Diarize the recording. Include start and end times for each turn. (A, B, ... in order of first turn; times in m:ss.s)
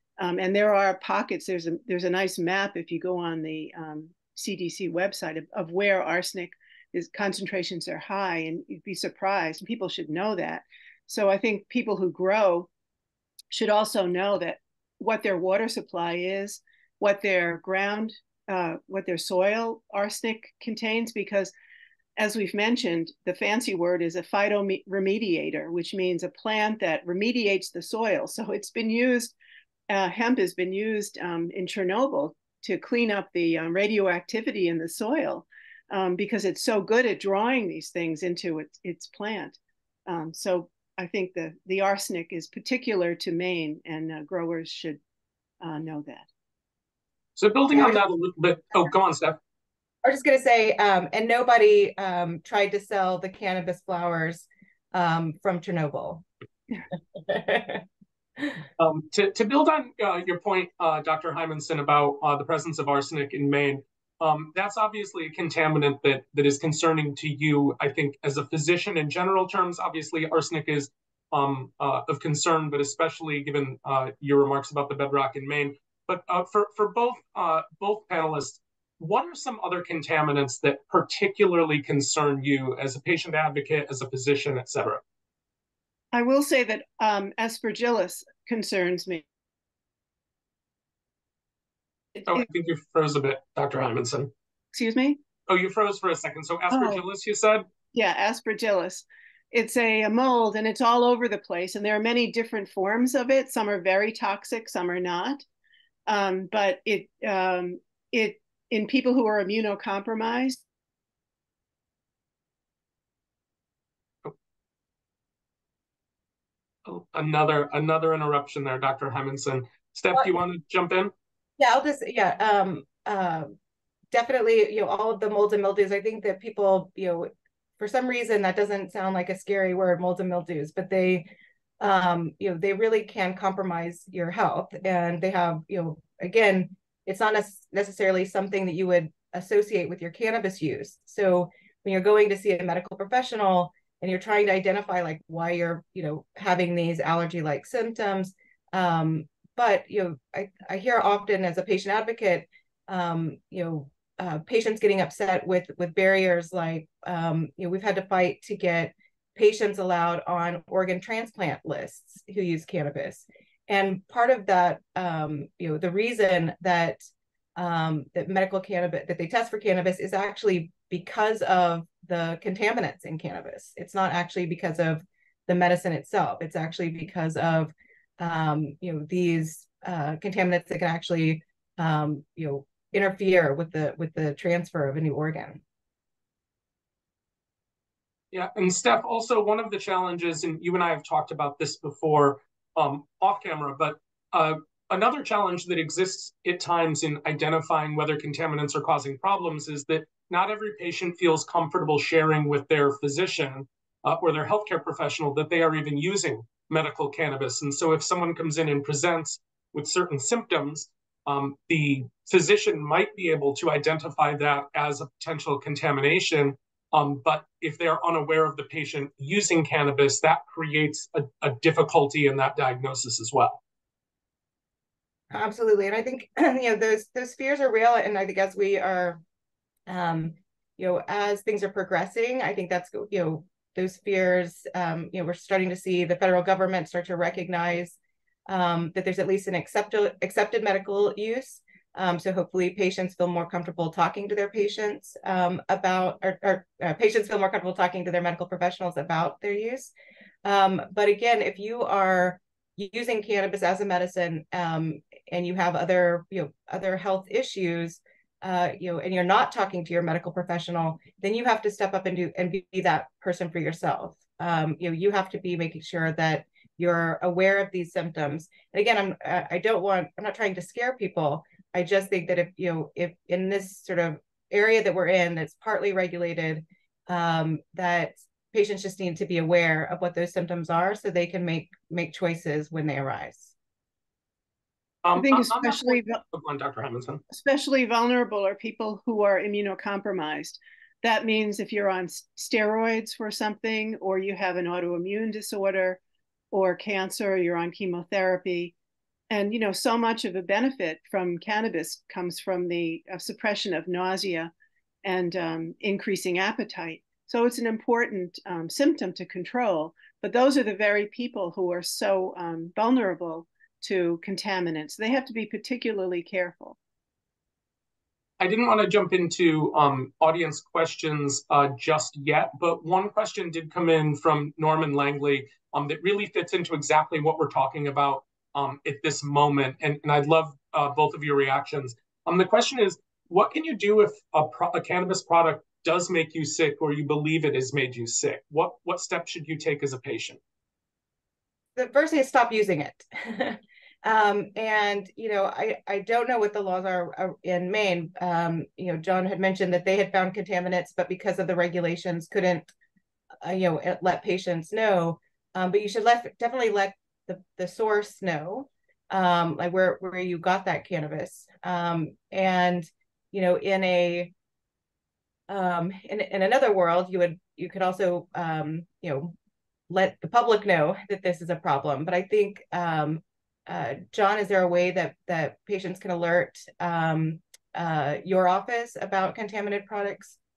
0:00.2-0:12.7 A
0:13.5-0:21.5 A
0:22.2-0:29.3 A
0:29.9-0:45.0 A
0:45.6-0:46.3 A
0:47.4-0:49.4 B
0:50.0-0:56.2 C
0:57.1-0:57.8 C
0:58.8-1:25.0 B
1:26.1-1:29.2 A
1:32.2-1:32.4 A
1:32.3-1:34.3 B
1:34.7-1:35.2 A
1:35.5-1:37.6 B
1:36.7-1:37.0 A
1:37.9-1:45.4 A
1:46.1-1:50.6 A
1:56.8-2:01.1 B
2:01.6-2:03.5 C
2:04.1-2:11.2 C
2:11.8-2:47.0 C
2:47.6-3:05.6 C
3:08.3-3:43.6 B
3:45.3-3:49.2 C
3:49.9-4:09.9 C
4:10.4-4:43.5 C
4:45.0-4:47.2 B
4:45.2-4:46.2 A
4:47.3-4:56.0 A
4:56.5-4:58.7 A
4:59.3-5:04.5 A
5:05.0-5:16.8 A
5:18.4-5:40.4 B
5:41.8-5:52.7 C
5:53.4-6:04.3 C
6:05.5-6:09.3 C
6:09.9-6:20.4 C